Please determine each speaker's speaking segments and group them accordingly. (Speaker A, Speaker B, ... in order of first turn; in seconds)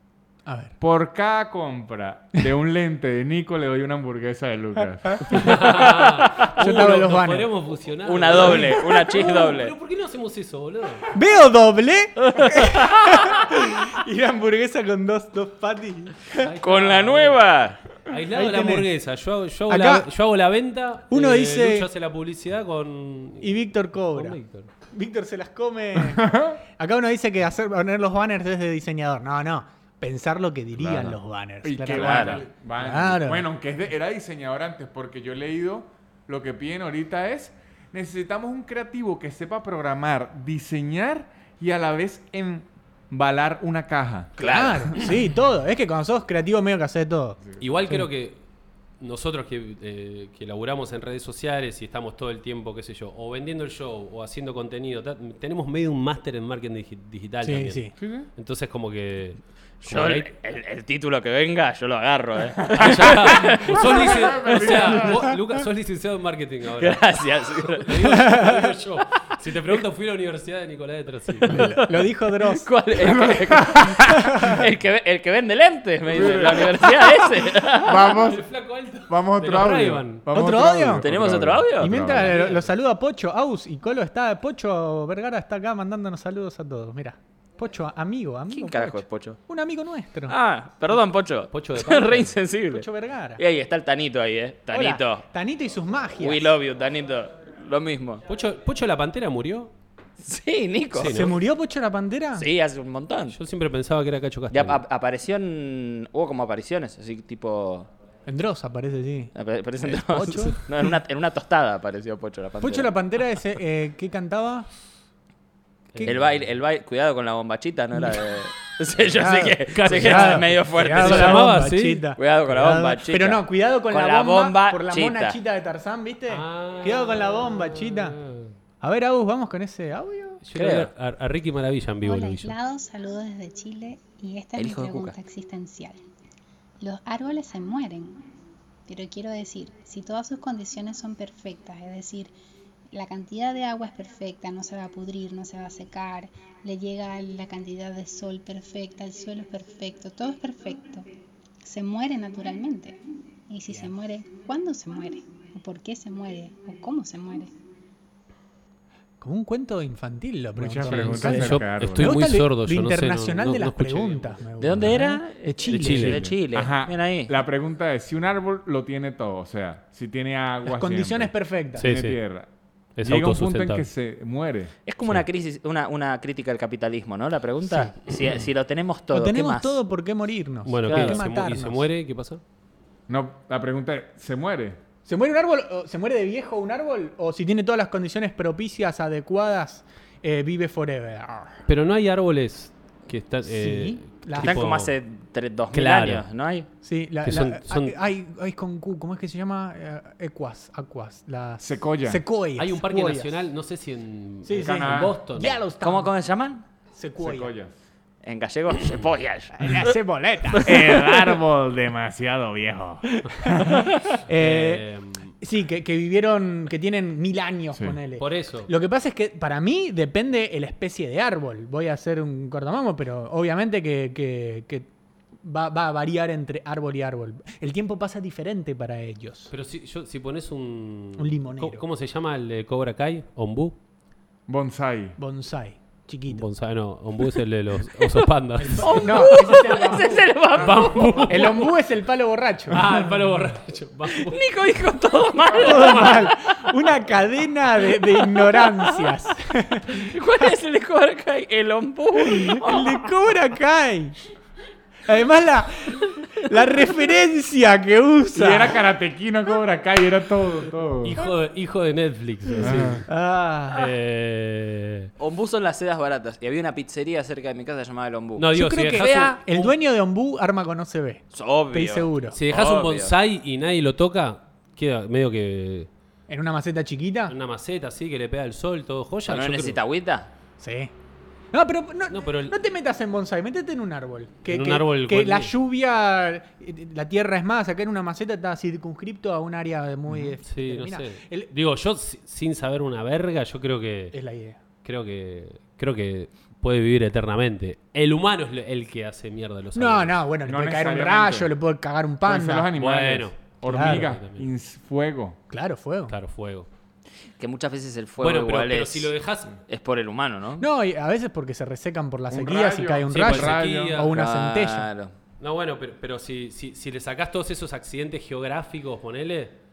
Speaker A: 0.5-0.7, 6.6-7.5, 11.1-16.5, 18.3-18.9, 19.7-20.1, 21.1-21.9, 23.4-33.4, 44.4-47.4, 57.4-57.9, 68.1-68.7, 71.5-72.7, 74.1-74.6, 80.3-81.1, 81.8-90.4, 92.7-93.4, 94.7-96.5, 101.0-102.5, 108.3-110.9, 112.6-114.7, 119.2-128.2, 128.8-130.4, 159.2-166.2, 170.7-171.9, 177.7-177.9, 179.1-181.9, 185.1-191.6, 193.5-194.7, 196.8-203.3, 204.4-206.1, 206.9-207.5, 209.6-211.1, 213.1-214.8, 215.4-224.9, 225.4-229.5, 231.2-231.8, 235.2-236.5, 238.6-242.9, 245.5-250.1, 252.2-254.2, 255.1-258.8, 263.1-263.9, 268.5-272.4, 276.3-277.3, 280.6-280.9, 281.5-291.5, 294.1-294.6, 299.7-302.7, 303.7-304.1, 305.5-306.1, 310.6-314.9
Speaker B: 0.8-5.5, 26.0-26.6, 30.9-44.4, 58.0-58.3, 62.7-65.4, 73.0-74.3, 76.1-76.8, 77.8-78.5, 79.1-82.4, 160.6-162.3, 166.0-172.5, 173.0-174.7, 183.1-184.8, 201.6-202.2, 204.6-205.2, 207.2-207.7, 210.6-213.8, 234.5-235.2, 258.4-261.1, 262.6-263.0, 290.1-290.4, 300.4-301.5, 302.2-305.4, 312.3-314.1
Speaker C: 5.3-11.1, 16.4-24.7, 47.6-48.4, 49.0-60.3, 62.7-71.8, 77.9-80.3, 82.1-82.7, 91.5-92.4, 98.3-99.7, 100.9-101.4, 103.3-104.8, 115.9-116.2, 119.8-122.1, 126.3-128.5, 130.4-132.6, 160.9-164.4, 165.7-166.2, 171.8-172.2, 173.0-173.9, 180.7-182.4, 191.7-194.9, 195.7-196.2, 197.2-198.0, 202.6-205.6, 214.3-215.3, 218.2-218.7, 229.5-233.8, 236.3-239.6, 240.5-241.7, 242.7-244.5, 245.4-246.4, 261.0-263.1, 263.7-265.1, 268.4-269.2, 272.3-275.9, 277.3-279.8, 282.1-282.6, 284.5-285.5, 290.5-294.2, 294.8-300.1, 302.8-304.5, 306.1-306.7, 308.2-309.6, 313.1-314.2, 315.4-319.6
Speaker D: 5.4-6.7, 8.1-9.7, 12.2-13.5, 16.6-17.8, 31.9-32.4, 44.4-44.9, 59.8-64.7, 66.8-67.9, 72.5-78.1, 81.0-82.0, 88.5-89.4, 90.3-92.9, 93.4-95.2, 96.2-98.2, 100.2-101.2, 102.4-103.4, 104.5-107.9, 109.3-112.9, 116.0-121.5, 122.2-125.4, 130.5-130.9, 134.6-135.1, 164.6-167.4, 174.9-179.8, 180.9-181.2, 194.4-196.7, 205.8-206.7, 208.2-209.9, 238.7-241.6, 244.1-246.2, 249.9-253.1, 265.2-269.7, 271.3-273.1, 279.3-280.3, 307.4-310.7, 314.1-315.1
Speaker E: 132.0-136.0, 136.8-138.2, 138.9-142.3, 142.9-151.1, 151.6-157.5